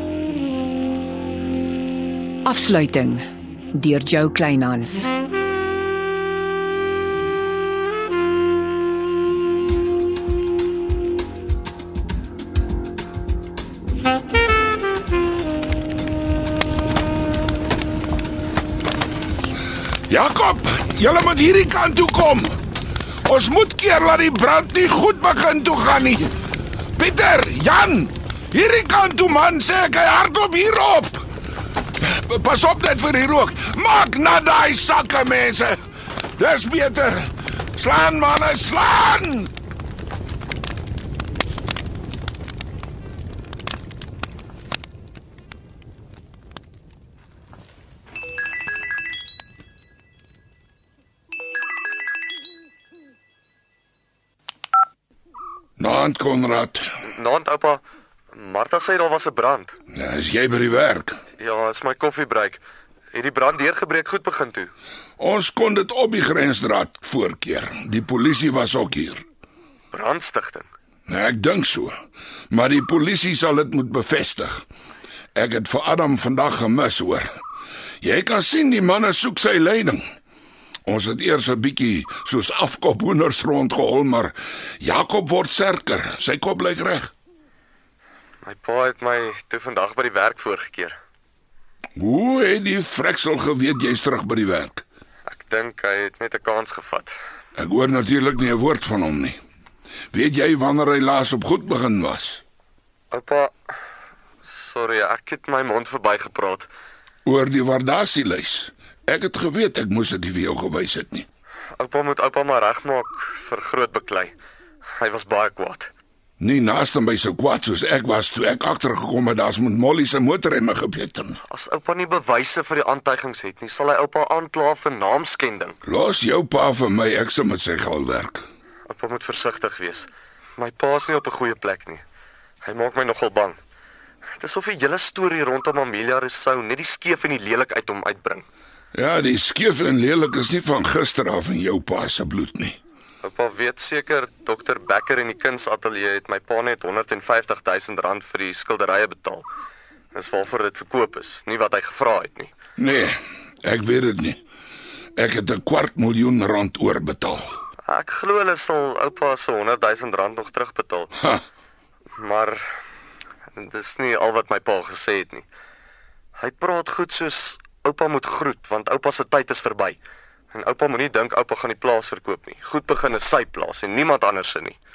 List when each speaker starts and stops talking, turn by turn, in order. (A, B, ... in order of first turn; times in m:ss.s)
0:02.4-0:05.1 A
0:20.1-0:22.6 B
0:23.2-0:26.3 B
0:27.0-0:31.3 B
0:32.0-0:35.8 B
0:36.4-0:39.5 B
0:55.8-0:56.9 B
0:57.0-0:57.8 C
0:58.3-0:59.7 C
0:59.9-1:01.2 B
1:01.4-1:02.6 C
1:03.1-1:04.7 C
1:05.2-1:09.2 B
1:09.9-1:10.7 C
1:11.1-1:11.9 B
1:12.5-1:14.7 B
1:15.4-1:17.3 B
1:18.0-1:20.0 B
1:20.9-1:27.1 B
1:28.4-1:31.0 C
1:32.0-1:34.8 B
1:35.3-1:37.1 C
1:37.6-1:39.4 B
1:40.1-1:42.4 B
1:43.1-1:43.5 C
1:44.4-1:46.7 C
1:47.2-1:51.3 B
1:51.8-1:54.4 C
1:55.0-1:55.9 C
1:56.4-2:01.4 B
2:01.5-2:05.8 C
2:05.8-2:08.4 B
2:08.9-2:12.0 C
2:12.6-2:13.6 C
2:14.4-2:18.5 C
2:18.9-2:22.8 B
2:23.2-2:29.5 C
2:30.1-2:32.5 C
2:32.8-2:34.4 B
2:35.2-2:37.5 B
2:37.8-2:41.2 C
2:42.2-2:42.7 C
2:43.5-2:45.5 C
2:46.4-2:50.0 C
2:50.5-2:54.8 C